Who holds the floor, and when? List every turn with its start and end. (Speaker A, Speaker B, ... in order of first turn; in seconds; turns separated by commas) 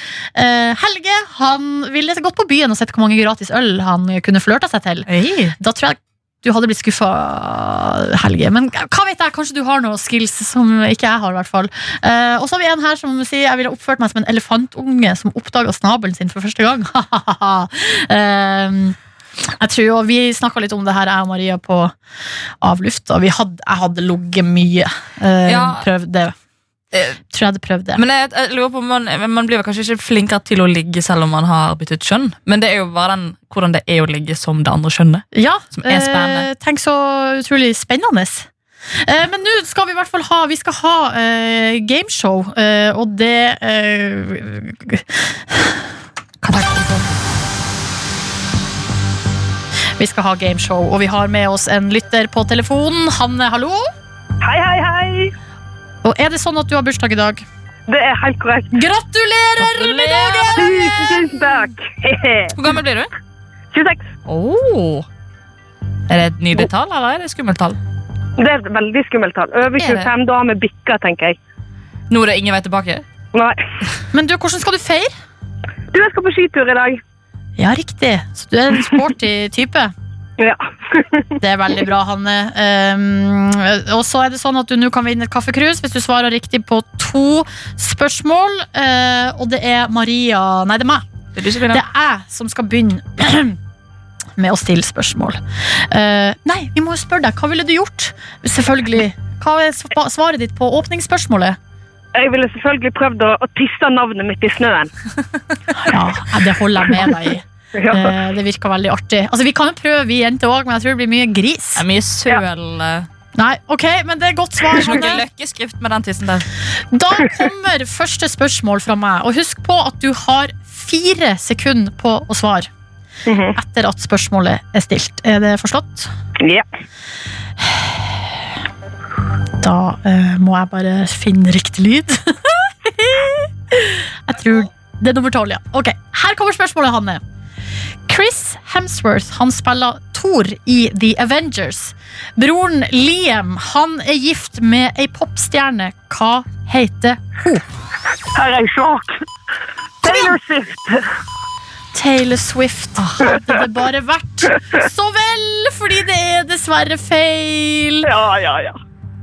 Speaker A: 0.3-21.9, Speaker B: 5.1-5.5, Speaker A: 22.6-26.3, Speaker B: 25.4-25.9, Speaker B: 26.9-27.2, Speaker A: 27.3-28.0, Speaker B: 27.9-36.5, Speaker A: 35.3-38.5, Speaker A: 39.0-45.8, Speaker B: 46.4-46.9, Speaker A: 46.5-47.0, Speaker A: 50.0-53.9, Speaker C: 54.4-55.3, Speaker A: 56.0-57.4, Speaker C: 57.9-58.8, Speaker A: 58.7-61.6, Speaker B: 59.6-60.7, Speaker C: 60.5-62.5, Speaker B: 62.5-63.1, Speaker C: 63.7-64.0, Speaker B: 64.2-65.1, Speaker B: 66.1-67.8, Speaker C: 68.4-71.4, Speaker A: 69.8-70.1, Speaker B: 72.1-73.0, Speaker C: 73.3-73.6, Speaker A: 74.1-75.1, Speaker C: 75.9-77.0, Speaker A: 77.6-79.9, Speaker C: 80.4-81.4, Speaker A: 81.4-91.0, Speaker B: 91.3-91.8, Speaker A: 91.7-93.6, Speaker A: 94.4-101.6, Speaker C: 102.1-104.9, Speaker A: 105.9-111.8, Speaker C: 107.8-108.2, Speaker B: 111.8-113.1, Speaker A: 113.3-115.2, Speaker B: 114.8-116.5, Speaker A: 116.9-122.7, Speaker C: 123.3-123.6, Speaker A: 123.5-126.1, Speaker C: 126.4-126.7, Speaker A: 127.6-128.3, Speaker A: 129.6-137.2, Speaker A: 138.1-147.6, Speaker C: 148.3-149.2, Speaker C: 150.0-151.1, Speaker A: 150.0-150.4, Speaker A: 151.9-158.1, Speaker C: 158.0-158.8